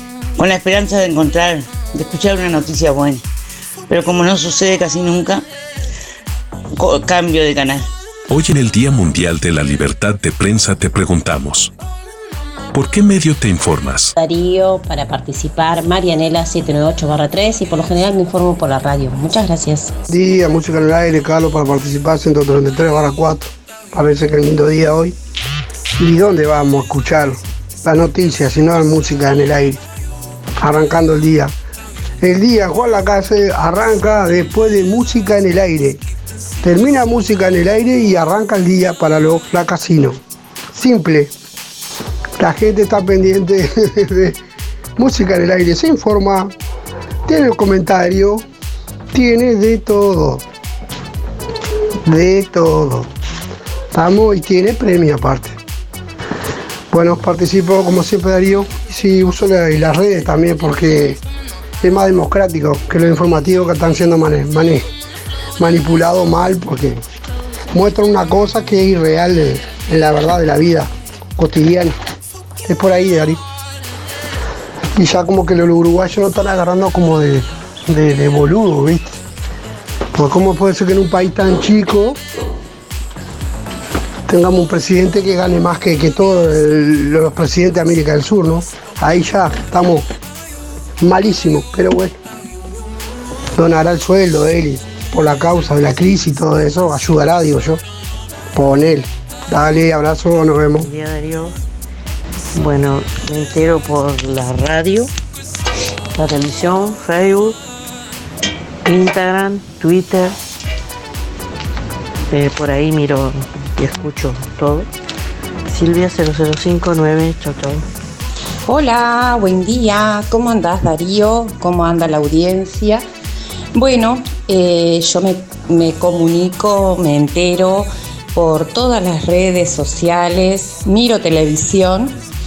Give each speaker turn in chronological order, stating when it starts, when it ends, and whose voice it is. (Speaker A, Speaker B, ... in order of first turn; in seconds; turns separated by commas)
Speaker A: 0.4-3.2, Speaker A: 3.9-5.4, Speaker A: 6.8-7.8, Speaker B: 8.3-11.7, Speaker B: 12.7-14.1, Speaker C: 14.2-19.9, Speaker D: 20.1-25.1, Speaker D: 26.0-29.8, Speaker D: 30.6-31.5, Speaker D: 32.2-36.0, Speaker D: 36.6-40.2, Speaker D: 40.7-41.3, Speaker D: 42.4-44.3, Speaker D: 45.0-46.5, Speaker D: 47.3-48.4, Speaker D: 49.1-50.4, Speaker D: 52.0-53.1, Speaker D: 53.9-55.6, Speaker D: 56.9-61.2, Speaker D: 61.8-64.8, Speaker D: 65.6-67.0, Speaker D: 67.7-71.9, Speaker D: 72.6-73.4, Speaker D: 75.0-79.2, Speaker D: 80.1-82.2, Speaker D: 84.3-90.0, Speaker D: 91.0-92.2, Speaker D: 93.6-97.8, Speaker D: 98.5-100.9, Speaker E: 100.7-101.5, Speaker E: 102.5-105.1, Speaker E: 106.2-107.6, Speaker E: 108.8-110.3, Speaker E: 112.3-114.9, Speaker E: 115.7-117.8, Speaker F: 118.7-123.0, Speaker F: 123.7-132.2